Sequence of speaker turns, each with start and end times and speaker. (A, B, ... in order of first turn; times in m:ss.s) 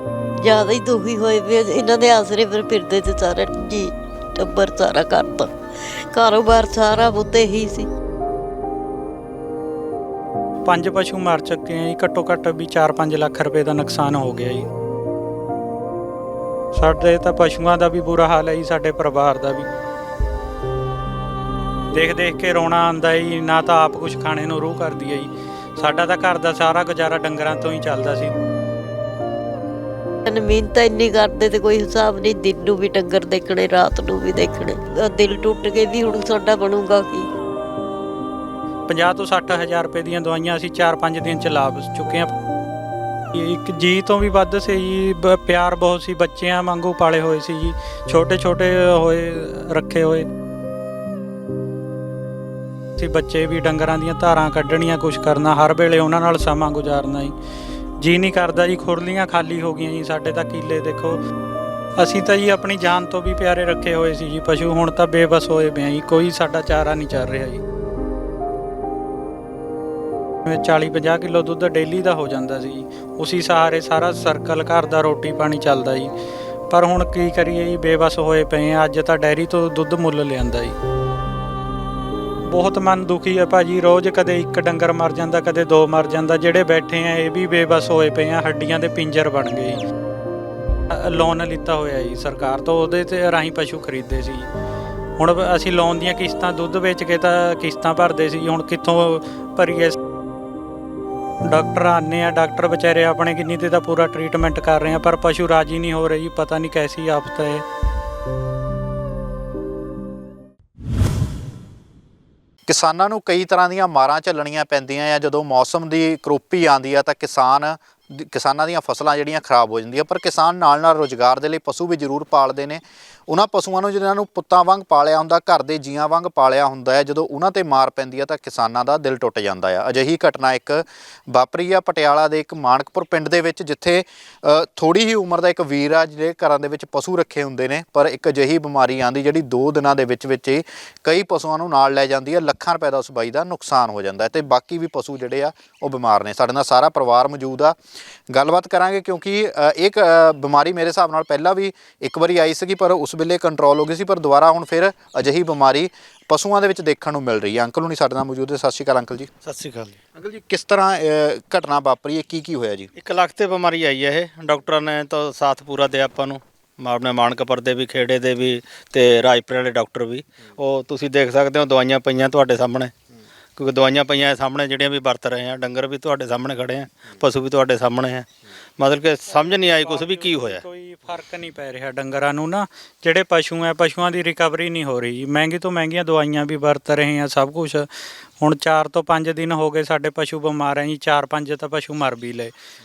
0:00.4-0:05.5 A
0:06.1-0:07.9 A
0:10.7-0:14.7 B
0:16.7-0:19.7 B
0:21.9-0:28.3 B
0:30.3-0:37.3 A
0:38.9-0:42.3 B
0:43.3-0:50.3 B
0:53.0-0:57.3 B
0:58.0-1:01.2 B
1:02.0-1:07.6 B
1:10.4-1:16.1 B
1:16.7-1:20.8 B
1:22.5-1:29.8 B
1:30.9-1:34.5 B
1:35.2-1:40.0 B
1:41.5-1:47.6 B
1:52.7-2:27.8 C
2:28.3-2:39.3 C
2:39.4-2:40.0 D
2:40.2-2:42.9 C
2:43.0-2:53.0 D
2:53.6-3:00.6 D
2:59.3-3:07.9 B
3:08.4-3:12.5 B